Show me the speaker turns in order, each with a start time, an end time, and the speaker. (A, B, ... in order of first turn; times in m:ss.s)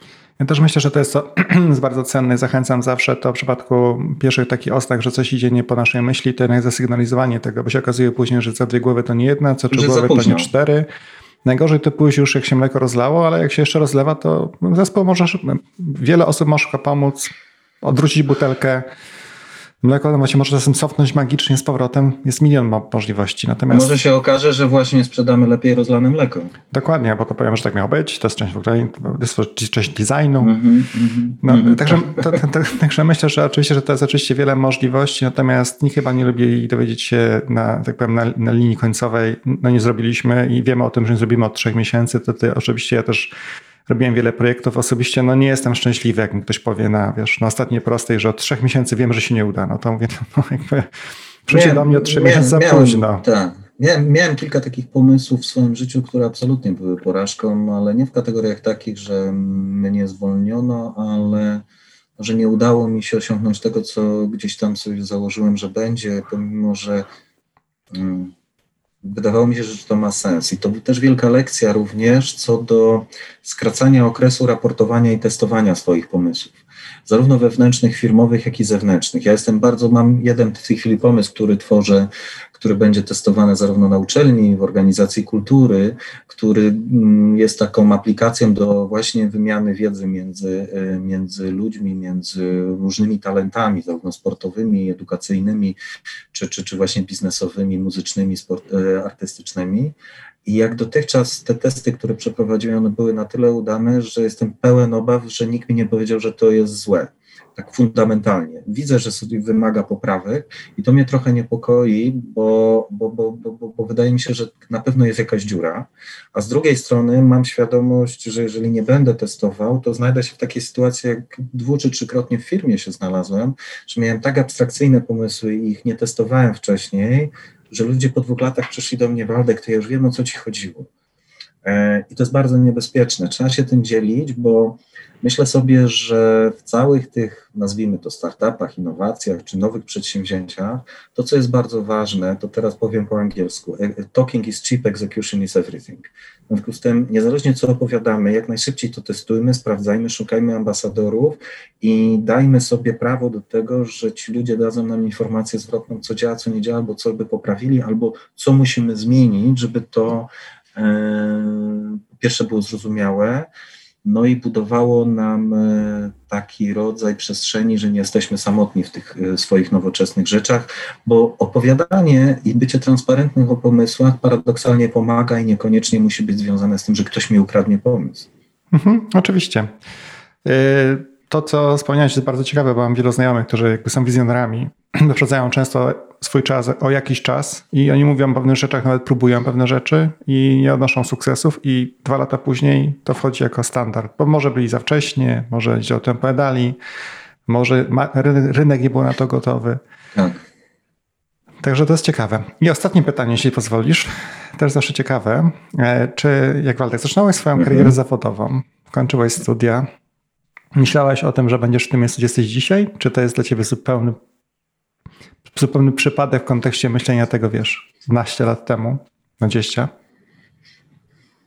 0:00.4-0:10.9 A
0:09.7-0:10.5 B
0:11.4-0:18.9 A
0:19.8-0:24.0 A
0:23.7-0:26.5 B
0:26.7-0:30.5 A
0:30.4-0:32.4 B
0:31.4-0:43.3 A
0:43.9-0:50.9 A
0:51.5-0:53.2 A
0:51.5-1:01.6 B
1:02.2-1:07.1 B
1:07.9-1:08.3 B
1:09.0-1:35.8 B
1:36.3-2:10.9 B
2:11.6-2:43.5 B
2:44.0-2:58.3 B
2:58.7-2:59.7 A
3:00.4-3:16.8 A
3:17.5-3:19.8 A
3:21.6-3:29.9 A
3:27.6-3:27.9 B
3:30.8-3:34.2 A
3:35.5-3:39.9 A